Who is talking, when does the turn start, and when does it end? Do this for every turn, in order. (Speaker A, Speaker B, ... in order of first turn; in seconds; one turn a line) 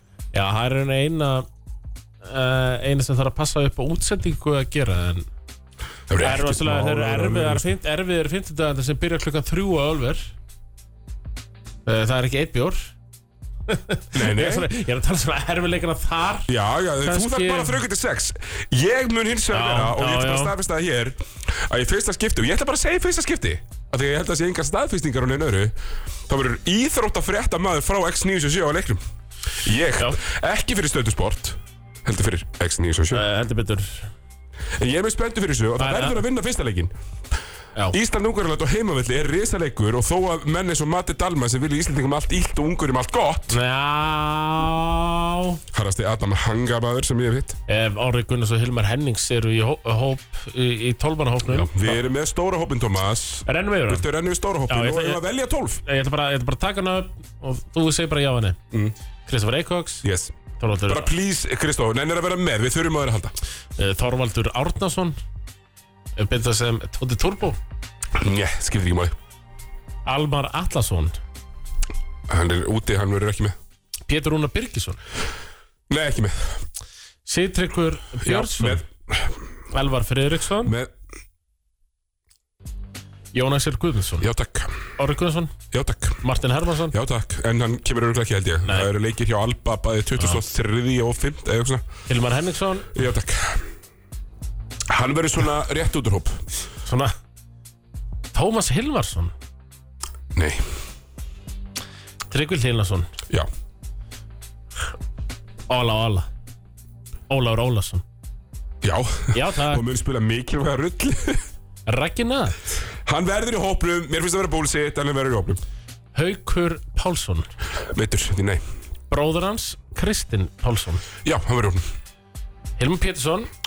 Speaker A: 0.3-1.5
Speaker A: 2.2-5.3
Speaker B: 6.1-7.7
Speaker A: 6.2-10.3
Speaker A: 11.9-12.9
Speaker A: 13.7-17.8
Speaker B: 14.1-14.7
Speaker B: 16.5-25.7
Speaker A: 19.5-20.5
Speaker B: 26.3-29.0
Speaker B: 29.6-33.2
Speaker A: 33.1-34.1
Speaker B: 34.8-36.9
Speaker A: 35.8-36.2
Speaker B: 37.9-43.6
Speaker A: 43.5-45.6
Speaker B: 45.7-47.6
Speaker A: 47.7-52.0
Speaker B: 51.5-55.8
Speaker A: 53.5-54.1
Speaker A: 54.7-55.2
Speaker A: 55.8-58.6
Speaker A: 59.3-60.1
Speaker B: 60.0-60.4
Speaker A: 60.6-61.1
Speaker B: 60.9-63.4
Speaker A: 63.8-65.2
Speaker A: 66.2-67.6
Speaker B: 68.2-69.2
Speaker A: 70.1-71.2
Speaker B: 72.3-73.6
Speaker A: 74.1-75.0
Speaker B: 75.9-76.6
Speaker A: 77.3-78.8
Speaker B: 78.2-79.4
Speaker A: 79.7-80.8
Speaker B: 80.7-80.9
Speaker A: 83.3-84.3
Speaker B: 84.2-84.8
Speaker A: 85.0-85.5
Speaker B: 85.7-86.2
Speaker A: 86.2-86.9
Speaker B: 86.9-91.8
Speaker A: 88.7-88.9
Speaker A: 92.1-92.9
Speaker B: 92.9-93.6
Speaker B: 94.9-96.4
Speaker A: 96.9-97.1
Speaker A: 98.3-99.3
Speaker B: 100.3-100.6
Speaker A: 102.3-103.1
Speaker A: 105.7-106.3
Speaker A: 107.3-108.0
Speaker B: 108.8-111.5
Speaker A: 109.3-109.8
Speaker A: 111.9-112.6
Speaker B: 113.0-115.6
Speaker A: 116.2-117.5
Speaker B: 117.8-118.6
Speaker A: 119.1-121.0
Speaker B: 121.2-121.8
Speaker A: 122.8-123.5